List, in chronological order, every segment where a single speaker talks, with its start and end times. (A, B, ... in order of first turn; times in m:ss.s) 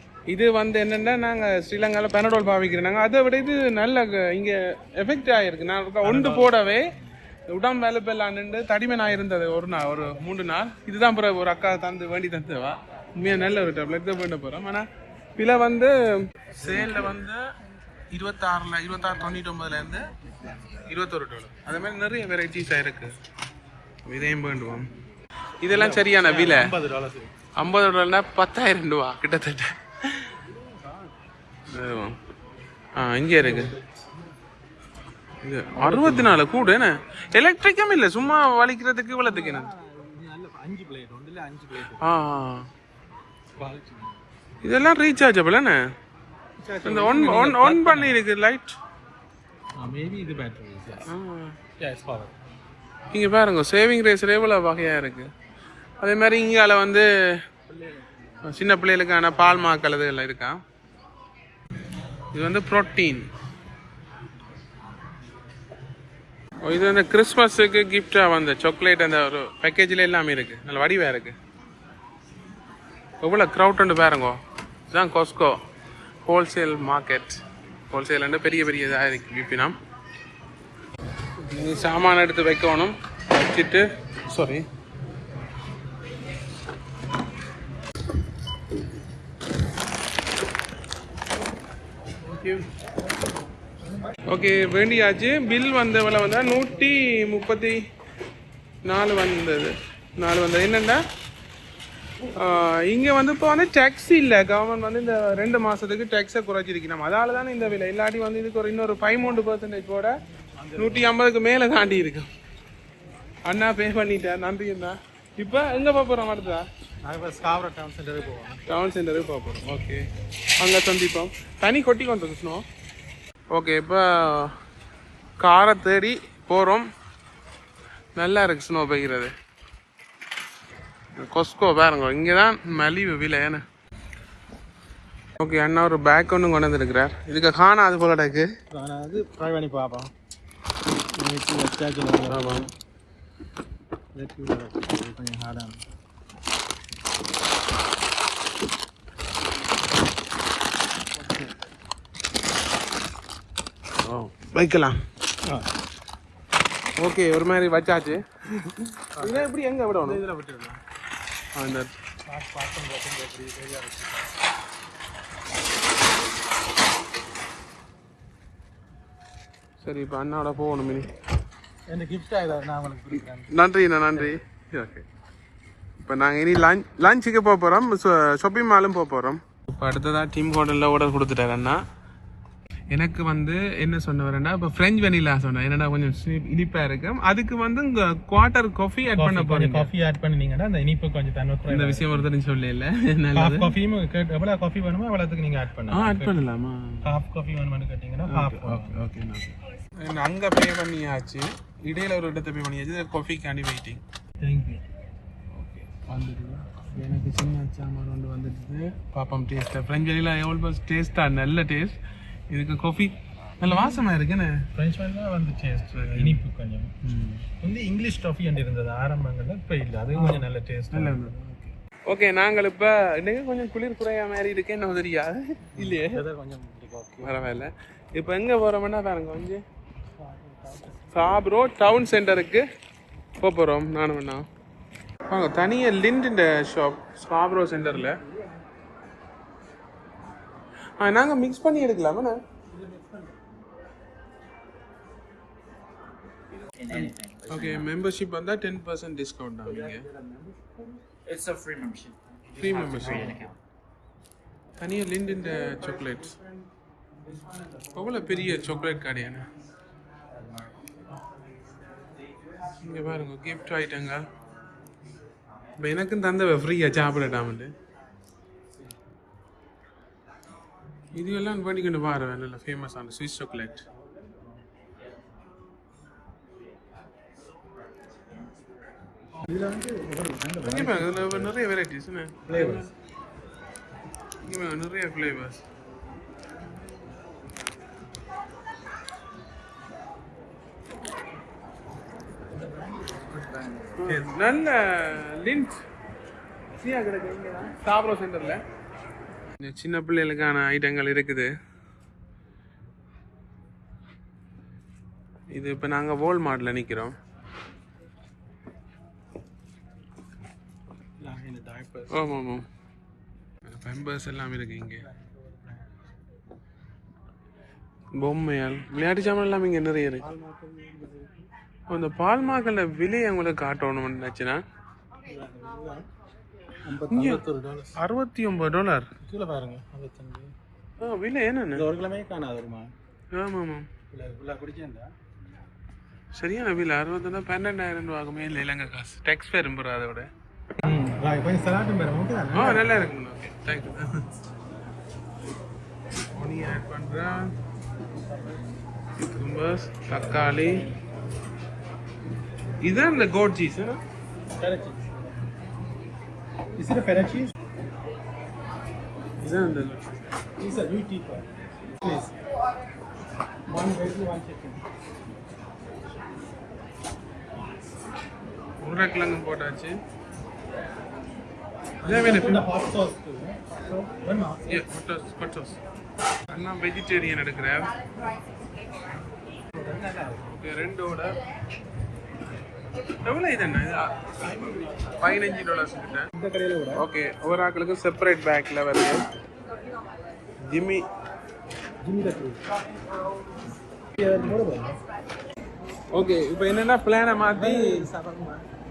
0:00.3-0:06.8 A
0:06.0-0:07.1 B
0:07.5-0:17.4 A
0:16.6-0:16.9 B
0:18.1-0:20.0 A
0:20.9-0:23.1 A
0:24.0-0:24.9 A
0:25.6-0:26.7 A
0:25.7-0:27.3 B
0:27.6-0:30.4 A
0:30.4-0:31.1 B
0:31.7-0:32.2 A
0:33.0-0:33.7 A
0:33.4-0:33.9 B
0:35.4-0:39.7 A
0:35.8-0:36.4 B
0:39.2-0:42.1 B
0:42.0-0:42.7 A
0:43.6-0:44.2 B
0:44.6-0:45.8 A
0:46.6-0:48.2 B
0:46.8-0:48.8 A
0:49.8-0:51.1 B
0:51.1-0:51.6 A
0:51.8-0:52.3 B
0:53.1-0:55.3 A
0:56.0-0:57.1 A
0:57.7-0:58.6 B
0:58.4-1:00.6 A
0:59.3-0:59.8 B
1:02.3-1:03.3 A
1:06.6-1:11.4 A
1:13.2-1:14.4 A
1:14.9-1:15.6 A
1:16.2-1:19.8 A
1:21.5-1:24.6 A
1:34.3-1:37.8 A
1:38.8-1:41.0 A
1:42.3-1:50.1 A
1:50.6-1:51.1 B
1:50.8-1:52.3 A
1:53.4-1:56.7 A
1:57.0-1:58.6 B
1:58.7-2:00.0 A
2:00.6-2:02.6 A
2:03.5-2:04.5 A
2:05.4-2:06.9 A
2:08.2-2:09.3 A
2:11.2-2:13.6 A
2:15.4-2:18.5 A
2:18.7-2:20.1 B
2:21.1-2:22.7 B
2:22.3-2:22.7 A
2:24.1-2:25.8 B
2:34.0-2:35.0 A
2:37.0-2:40.2 A
2:39.2-2:40.8 B
2:41.5-2:41.9 A
2:42.2-2:44.3 B
2:49.8-2:51.1 A
2:51.9-2:53.5 B
2:53.5-2:55.0 A
2:56.0-3:01.8 A
3:02.9-3:09.9 A
3:09.1-3:12.3 B
3:11.7-3:13.7 A
3:13.3-3:16.5 B
3:15.9-3:17.1 A
3:17.0-3:19.0 B
3:18.3-3:24.0 A
3:24.4-3:24.8 B
3:25.5-3:32.0 A
3:32.5-3:34.6 A
3:33.6-3:34.0 B
3:34.7-3:36.9 B
3:35.9-3:36.4 A
3:37.0-3:37.4 A
3:37.5-3:41.3 B
3:40.1-3:46.2 A
3:45.8-3:47.3 B
3:47.2-3:49.6 A
3:50.2-3:51.4 B
3:51.1-3:52.6 A
3:53.4-3:54.4 A
3:55.3-3:58.2 A
3:57.8-3:58.5 B
4:01.0-4:02.4 A
4:02.7-4:03.4 B
4:06.8-4:07.8 C
4:07.5-4:10.0 A
4:09.7-4:10.7 B
4:11.3-4:13.5 C
4:12.6-4:13.4 A
4:12.7-4:13.4 B
4:14.8-4:16.4 A
4:17.9-4:19.5 A
4:22.8-4:24.2 A
4:25.8-4:27.7 A
4:31.1-4:33.8 A
4:39.4-4:41.5 B
4:40.6-4:42.9 A
4:42.4-4:42.9 B
4:44.4-4:45.6 A
4:54.0-4:55.8 A
4:56.8-4:58.6 A
4:59.6-5:01.5 A
5:05.5-5:07.1 A
5:11.2-5:12.3 B
5:12.1-5:12.6 A
5:13.7-5:15.0 A
5:15.0-5:16.0 B
5:18.2-5:20.2 A
5:20.2-5:21.3 B
5:21.9-5:24.6 A
5:25.2-5:26.0 B
5:26.8-5:28.0 B
5:27.1-5:27.4 A
5:28.0-5:29.1 A
5:29.2-5:30.5 B
5:31.0-5:31.9 A
5:31.7-5:32.9 B
5:33.3-5:33.9 A
5:34.1-5:35.1 B
5:36.3-5:40.3 A
5:40.8-5:42.8 B
5:42.5-5:44.2 A
5:46.3-5:47.5 A
5:48.3-5:48.6 B
5:49.2-5:50.9 A
5:52.8-5:54.0 A
5:54.6-5:55.1 B
5:56.8-5:57.5 B
5:59.4-6:00.2 A
6:00.6-6:01.5 B
6:02.0-6:02.3 B
6:03.7-6:04.8 B
6:08.8-6:10.0 A
6:12.0-6:14.9 B
6:12.0-6:12.7 A
6:14.7-6:15.8 A
6:16.5-6:17.9 A
6:19.8-6:20.5 B
6:20.5-6:21.4 A
6:23.2-6:24.1 A
6:24.4-6:25.2 B
6:25.2-6:26.3 A
6:26.3-6:27.0 B
6:26.9-6:29.2 A
6:30.6-6:31.0 A
6:32.0-6:32.6 B
6:34.2-6:35.0 B
6:36.1-6:37.8 A
6:37.5-6:38.6 B